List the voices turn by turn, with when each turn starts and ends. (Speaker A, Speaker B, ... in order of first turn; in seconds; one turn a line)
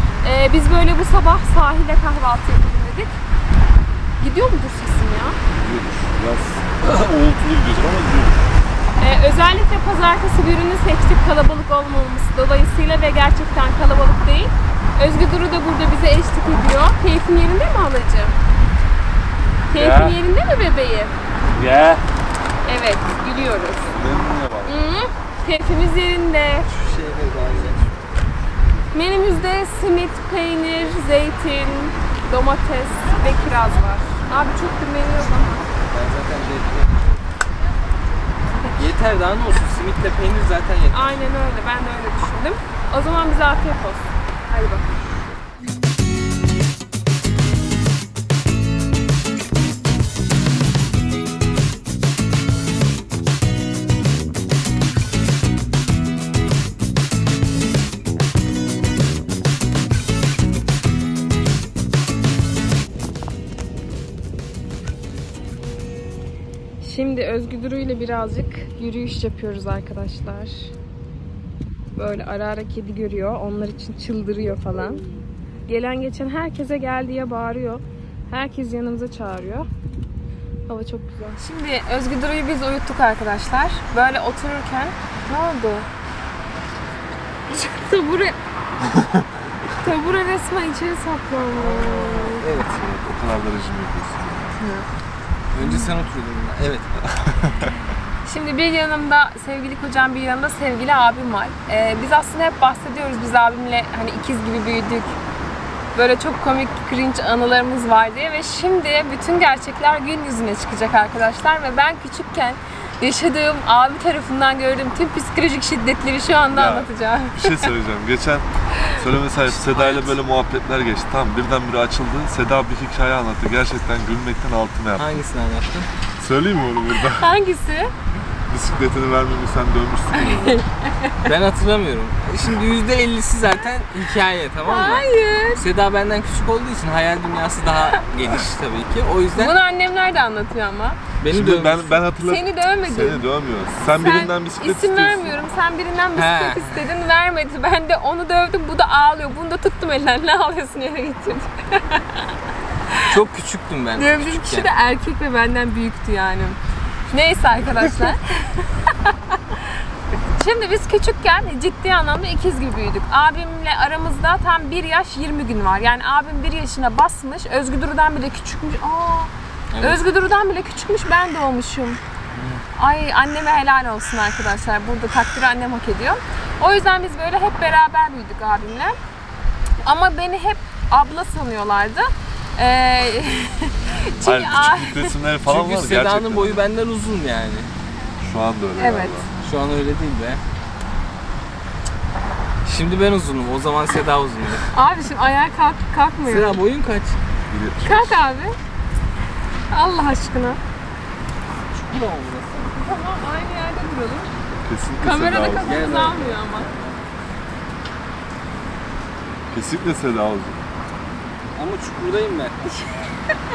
Speaker A: 0.2-3.1
Speaker A: 4.2-5.4
Speaker B: 5.5-8.4
Speaker A: 9.0-18.4
Speaker A: 19.7-21.1
Speaker C: 19.8-20.1
Speaker C: 21.6-22.0
Speaker A: 22.6-23.9
Speaker B: 23.9-24.8
Speaker A: 24.6-26.8
Speaker C: 26.7-27.9
Speaker A: 28.9-35.7
Speaker C: 35.9-37.0
Speaker C: 38.8-41.2
Speaker A: 40.9-44.9
Speaker A: 66.8-70.7
Speaker A: 72.0-75.0
Speaker A: 75.7-79.7
Speaker A: 80.7-85.9
Speaker A: 87.5-88.4
Speaker A: 89.8-92.5
Speaker C: 91.6-92.8
Speaker B: 92.8-94.6
Speaker A: 94.6-94.9
Speaker C: 95.5-96.9
Speaker A: 95.6-95.9
Speaker B: 97.1-97.7
Speaker A: 98.2-105.2
Speaker A: 106.0-117.7
Speaker B: 116.5-125.2
Speaker C: 119.4-120.2
Speaker C: 125.0-125.9
Speaker B: 126.2-127.3
Speaker A: 127.0-127.9
Speaker B: 128.5-130.6
Speaker A: 130.2-131.3
Speaker C: 131.2-139.6
Speaker A: 134.6-135.7
Speaker A: 139.3-141.0
Speaker C: 141.2-142.1
Speaker B: 141.3-145.4
Speaker A: 142.2-143.2
Speaker A: 143.9-152.2
Speaker C: 146.2-146.9
Speaker A: 152.9-153.2
Speaker C: 153.1-154.7
Speaker A: 154.0-156.6
Speaker A: 157.1-159.6
Speaker A: 160.3-172.0
Speaker C: 169.7-170.0
Speaker A: 172.8-179.0
Speaker A: 179.8-185.2
Speaker B: 184.2-186.6
Speaker C: 185.5-187.7
Speaker B: 188.2-189.3
Speaker A: 188.8-189.2
Speaker C: 189.4-190.4
Speaker C: 192.7-194.7
Speaker A: 194.7-196.6
Speaker C: 196.2-197.2
Speaker B: 197.5-198.2
Speaker A: 197.8-198.6
Speaker A: 199.7-200.6
Speaker C: 201.7-202.7
Speaker A: 202.7-204.3
Speaker B: 204.6-205.8
Speaker A: 205.0-206.7
Speaker C: 205.5-207.0
Speaker B: 209.5-210.6
Speaker C: 211.6-212.8